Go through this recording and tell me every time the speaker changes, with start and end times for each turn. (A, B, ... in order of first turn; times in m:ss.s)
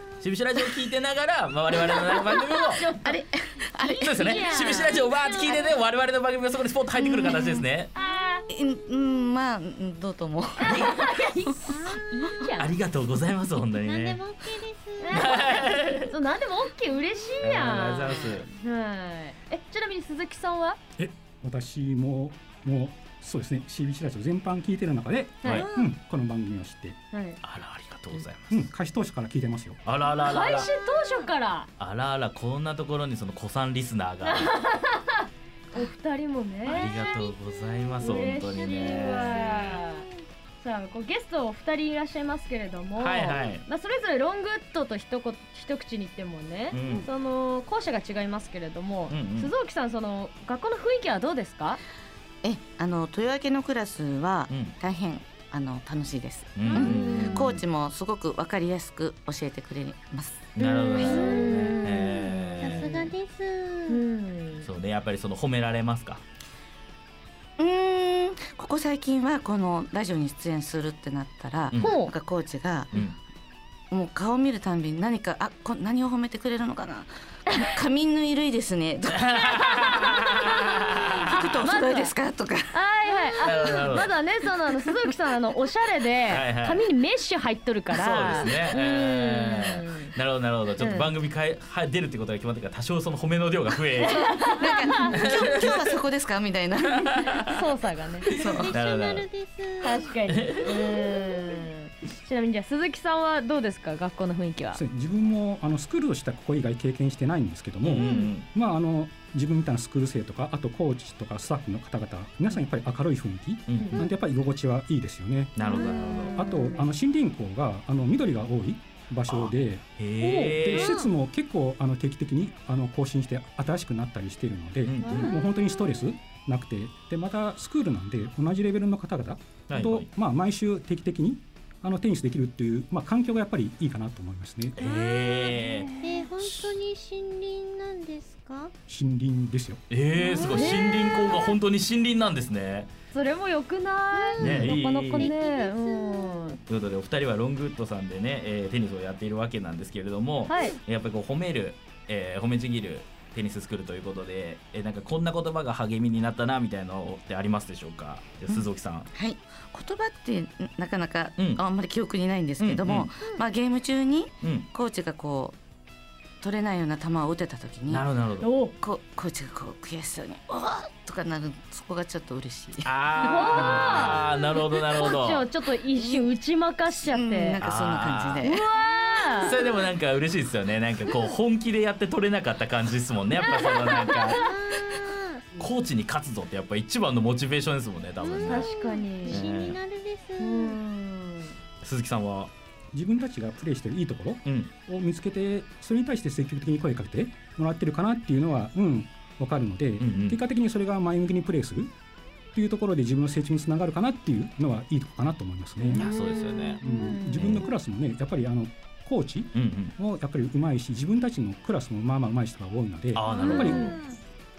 0:00.2-0:02.9 A
0:02.2-0:05.7 B
0:03.0-0:04.5 C
0:04.0-0:07.9 A
0:07.0-0:07.6 C
0:07.9-0:08.5 B
0:08.5-0:11.2 C
0:10.6-0:12.7 B
0:11.7-0:12.2 D
0:12.6-0:14.2 A
0:13.7-0:15.7 D
0:15.0-0:20.8 B
0:15.1-0:16.1 A
0:17.4-0:18.5 A
0:21.0-0:27.0 E
0:25.4-0:25.7 A
0:27.1-0:27.4 B
0:27.4-0:28.7 A
0:28.5-0:29.8 E
0:29.8-0:30.7 A
0:30.2-0:31.7 B
0:31.8-0:34.5 A
0:34.2-0:36.9 B
0:36.6-0:40.1 D
0:36.7-0:39.8 A
0:38.0-0:40.0 B
0:40.6-0:51.8 B
0:43.0-0:43.6 A
0:46.7-0:47.1 A
0:46.8-0:47.1 D
0:49.1-0:49.5 A
0:52.4-1:00.5 C
0:54.5-0:54.7 A
0:56.6-0:57.6 A
0:56.6-0:57.4 B
0:56.7-0:57.5 D
1:00.6-1:03.1 A
1:00.6-1:02.9 B
1:00.9-1:01.9 D
1:02.6-1:04.0 D
1:03.9-1:04.7 B
1:04.6-1:06.2 A
1:07.6-1:13.0 C
1:11.8-1:12.1 B
1:13.9-1:19.3 C
1:19.1-1:21.2 A
1:19.4-1:22.1 B
1:21.2-1:22.8 C
1:22.7-1:30.1 B
1:23.4-1:24.1 A
1:26.3-1:26.8 A
1:27.9-1:34.5 A
1:30.8-1:31.1 B
1:34.0-1:35.2 B
1:34.6-1:37.4 C
1:35.1-1:35.9 A
1:36.9-1:37.5 A
1:37.4-1:38.3 B
1:38.3-1:38.7 C
1:38.3-1:40.1 D
1:38.4-1:39.3 A
1:39.8-1:44.8 B
1:40.3-1:40.6 A
1:40.6-1:41.5 D
1:44.7-2:14.8 E
1:47.8-1:48.5 A
1:48.0-1:48.3 B
1:53.7-1:54.0 A
1:55.6-1:56.5 A
1:55.6-1:56.8 B
1:59.3-2:01.0 A
2:00.7-2:01.1 D
2:04.8-2:05.3 A
2:05.0-2:05.4 D
2:09.7-2:10.1 A
2:14.8-2:15.9 A
2:14.8-2:18.7 D
2:15.6-2:16.2 B
2:16.4-2:16.7 A
2:18.9-2:19.8 E
2:19.9-2:22.9 A
2:20.2-2:21.3 D
2:20.5-2:21.5 B
2:23.1-2:26.6 B
2:24.1-2:26.6 D
2:24.4-2:25.3 A
2:26.7-2:39.1 A
2:30.5-2:30.8 B
2:39.1-2:45.6 C
2:41.4-2:41.6 A
2:42.6-2:43.1 A
2:44.4-2:44.7 A
2:46.4-2:48.0 C
2:47.9-2:48.5 A
2:48.4-2:48.7 B
2:48.8-2:52.9 C
2:52.8-2:55.4 A
2:53.2-2:54.2 B
2:53.6-2:54.2 C
2:54.9-2:57.6 B
2:55.9-2:56.3 C
2:57.1-2:58.6 C
2:57.6-2:58.4 A
2:58.4-2:59.6 B
2:58.8-2:59.9 D
2:59.4-3:04.4 A
3:03.6-3:04.4 B
3:04.3-3:05.5 D
3:05.6-3:08.7 A
3:08.2-3:10.8 D
3:08.4-3:09.5 B
3:09.3-3:09.8 A
3:10.4-3:11.6 B
3:11.8-3:12.5 A
3:12.9-3:21.9 E
3:14.4-3:14.7 A
3:20.0-3:20.4 A
3:22.5-3:26.1 E
3:25.8-3:27.4 B
3:25.9-3:26.8 A
3:26.8-3:34.0 E
3:27.3-3:27.7 A
3:29.5-3:29.9 A
3:33.1-3:33.9 A
3:33.3-3:34.2 D
3:33.3-3:34.0 B